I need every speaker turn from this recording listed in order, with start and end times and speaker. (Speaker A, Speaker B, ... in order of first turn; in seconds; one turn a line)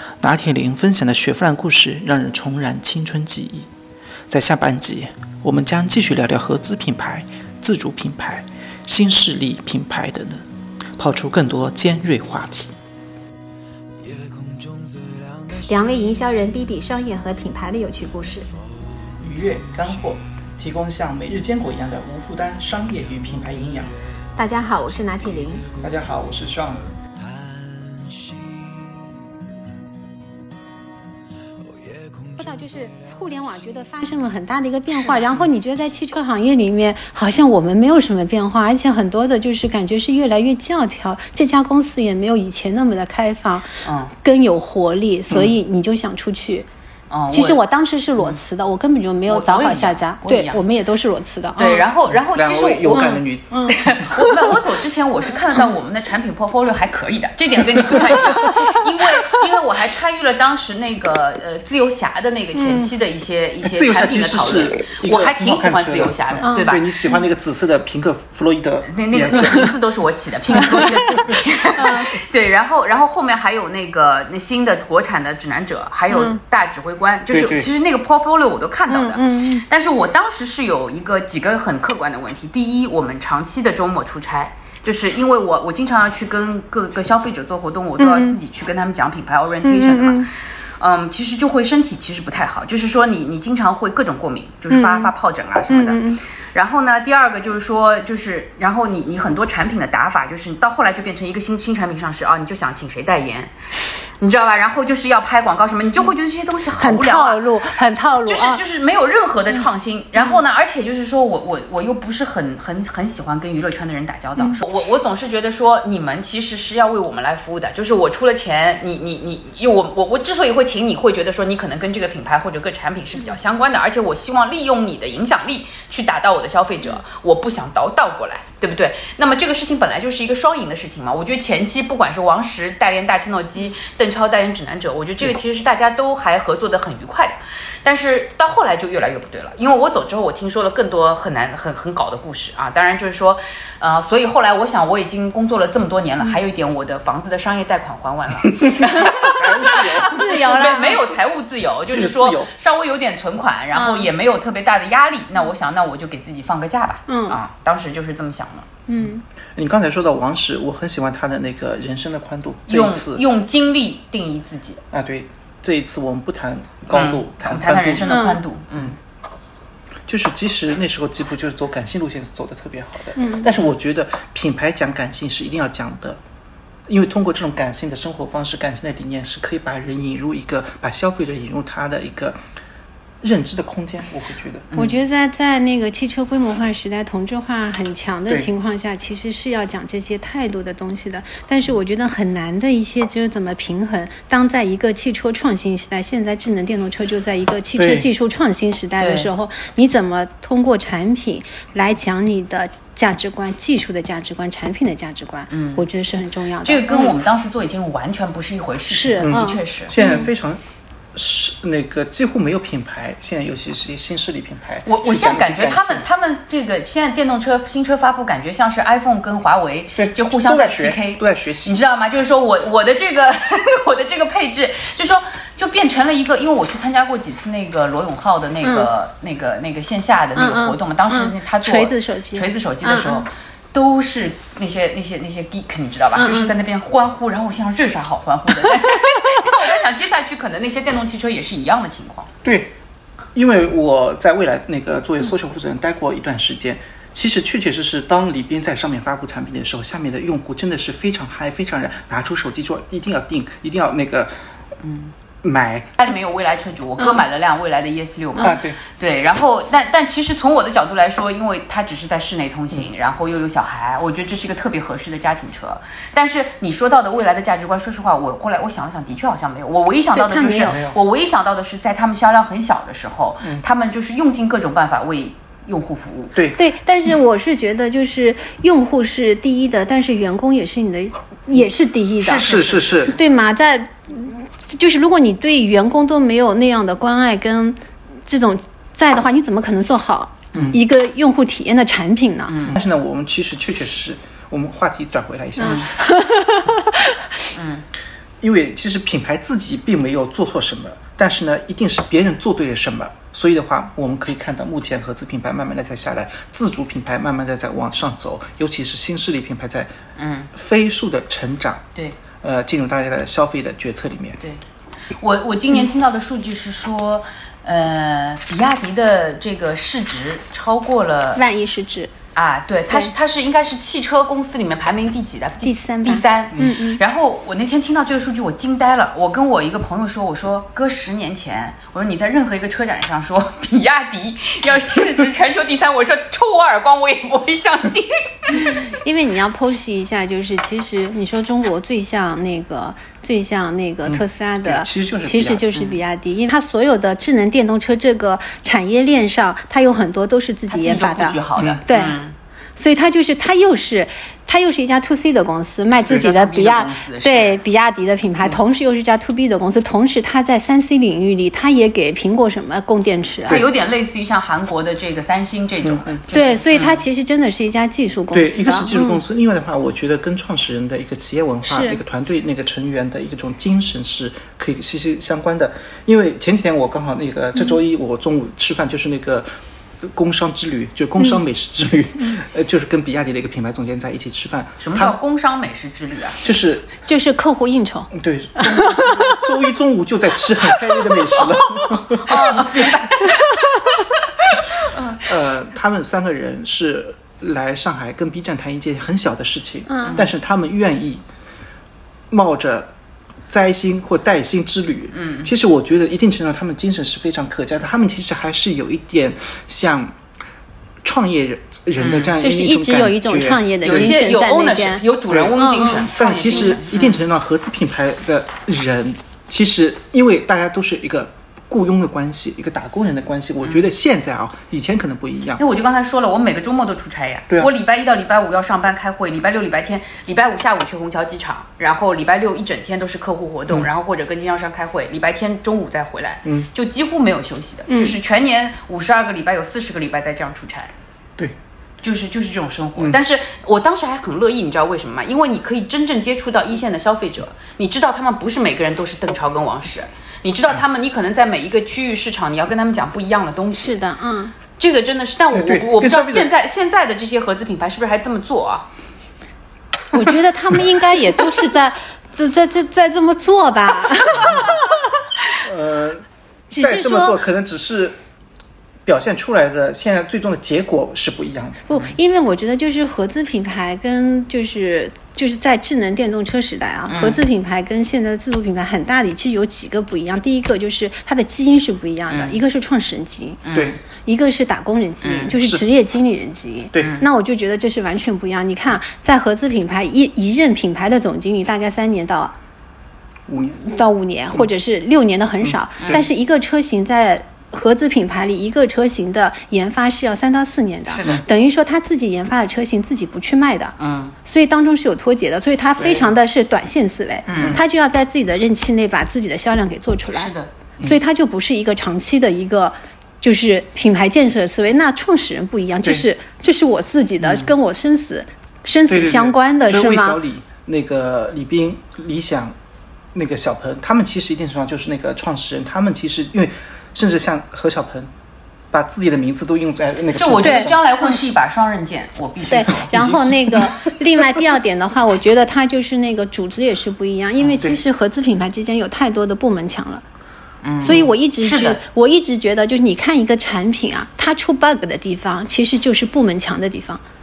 Speaker A: 0.2-3.7
Speaker A: 4.3-10.4
Speaker A: 11.0-12.8
Speaker B: 15.7-18.5
Speaker A: 19.2-23.9
Speaker B: 24.4-25.7
Speaker A: 25.8-26.9
Speaker B: 32.4-46.7
Speaker C: 35.0-35.5
Speaker C: 43.8-44.1
Speaker A: 45.3-45.5
Speaker C: 47.1-47.6
Speaker B: 47.3-51.8
Speaker C: 49.3-50.6
Speaker C: 51.5-66.9
Speaker A: 52.3-54.0
Speaker B: 52.9-54.6
Speaker B: 58.3-58.8
Speaker B: 62.6-62.9
Speaker A: 63.6-69.7
Speaker B: 66.4-67.1
Speaker C: 68.9-107.4
Speaker A: 70.6-71.4
Speaker B: 71.8-72.1
Speaker B: 76.1-76.4
Speaker A: 77.3-77.7
Speaker B: 78.9-79.6
Speaker B: 88.0-88.4
Speaker B: 89.6-90.3
Speaker B: 94.7-95.1
Speaker B: 95.7-96.2
Speaker B: 106.8-108.6
Speaker C: 108.2-158.7
Speaker A: 148.5-150.2
Speaker B: 149.6-151.1
Speaker A: 151.9-152.5
Speaker B: 153.7-154.1
Speaker B: 157.1-157.4
Speaker B: 158.9-159.2
Speaker A: 159.6-163.2
Speaker C: 162.7-164.8
Speaker A: 164.9-168.2
Speaker C: 166.9-169.0
Speaker B: 168.1-168.4
Speaker A: 170.1-176.2
Speaker B: 173.2-173.5
Speaker A: 176.9-182.4
Speaker A: 183.2-184.7
Speaker C: 184.7-185.0
Speaker B: 184.8-207.1
Speaker A: 197.8-198.1
Speaker C: 199.0-199.3
Speaker C: 205.5-205.8
Speaker C: 206.6-209.9
Speaker B: 208.9-210.3
Speaker A: 209.2-210.6
Speaker A: 211.1-216.0
Speaker C: 214.8-242.3
Speaker A: 220.0-221.7
Speaker B: 228.6-228.9
Speaker B: 230.3-233.2
Speaker B: 236.2-236.5
Speaker A: 242.4-242.7
Speaker A: 243.3-254.3
Speaker C: 254.8-255.1
Speaker A: 255.4-256.0
Speaker C: 256.0-276.3
Speaker A: 258.4-258.8
Speaker B: 270.1-270.8
Speaker A: 270.6-271.0
Speaker B: 276.6-282.5
Speaker C: 282.2-283.1
Speaker A: 282.3-283.1
Speaker B: 283.1-292.5
Speaker A: 290.5-290.8
Speaker C: 292.5-292.8
Speaker A: 292.6-295.9
Speaker B: 295.6-297.2
Speaker C: 295.6-295.9
Speaker C: 297.5-297.8
Speaker A: 298.4-309.9
Speaker C: 310.1-310.5
Speaker A: 310.5-311.8
Speaker A: 312.4-314.4
Speaker C: 315.2-321.4
Speaker B: 321.4-322.1
Speaker C: 322.3-338.9
Speaker B: 325.6-327.0
Speaker B: 338.6-352.2
Speaker A: 344.0-345.7
Speaker C: 350.7-352.3
Speaker B: 352.8-363.6
Speaker C: 356.0-357.6
Speaker C: 363.5-367.0
Speaker A: 365.8-366.2
Speaker B: 366.3-369.2
Speaker A: 368.3-379.5
Speaker B: 371.7-372.0
Speaker A: 380.0-385.2
Speaker C: 384.8-386.4
Speaker A: 386.4-386.9
Speaker B: 387.0-389.5
Speaker A: 388.1-393.0
Speaker B: 390.7-391.5
Speaker C: 391.3-395.3
Speaker B: 393.2-394.0
Speaker A: 395.2-401.2
Speaker B: 399.9-400.2
Speaker C: 400.0-400.3
Speaker A: 402.3-402.9
Speaker A: 403.5-410.1
Speaker C: 405.1-405.5
Speaker A: 411.0-414.1
Speaker C: 412.0-412.3
Speaker B: 412.4-415.0
Speaker C: 413.8-417.2
Speaker A: 415.3-425.6
Speaker B: 415.6-416.7
Speaker C: 425.6-440.9
Speaker B: 437.9-438.1
Speaker C: 442.0-454.0
Speaker B: 453.8-454.6
Speaker C: 454.8-458.9
Speaker A: 455.5-456.5
Speaker B: 460.1-465.0
Speaker A: 464.3-464.8
Speaker A: 465.6-466.2
Speaker B: 466.7-467.4
Speaker A: 466.8-468.1
Speaker A: 469.1-471.9
Speaker B: 471.9-483.6
Speaker C: 477.1-477.4
Speaker C: 482.3-482.6
Speaker C: 483.6-484.0
Speaker B: 484.2-492.5
Speaker C: 485.2-485.5
Speaker A: 485.5-485.8
Speaker C: 487.0-487.2
Speaker A: 493.5-493.8
Speaker B: 493.8-520.4
Speaker A: 495.6-496.2
Speaker C: 496.0-496.2
Speaker C: 501.1-501.4
Speaker C: 504.0-504.3
Speaker A: 506.0-506.3
Speaker C: 507.5-507.8
Speaker C: 510.3-510.7
Speaker A: 519.1-522.7
Speaker A: 523.3-528.3
Speaker A: 528.9-531.0
Speaker C: 530.4-533.1
Speaker B: 530.6-531.4
Speaker B: 532.7-540.2
Speaker A: 533.0-534.6
Speaker C: 537.6-537.9
Speaker C: 540.8-542.0
Speaker B: 541.0-547.2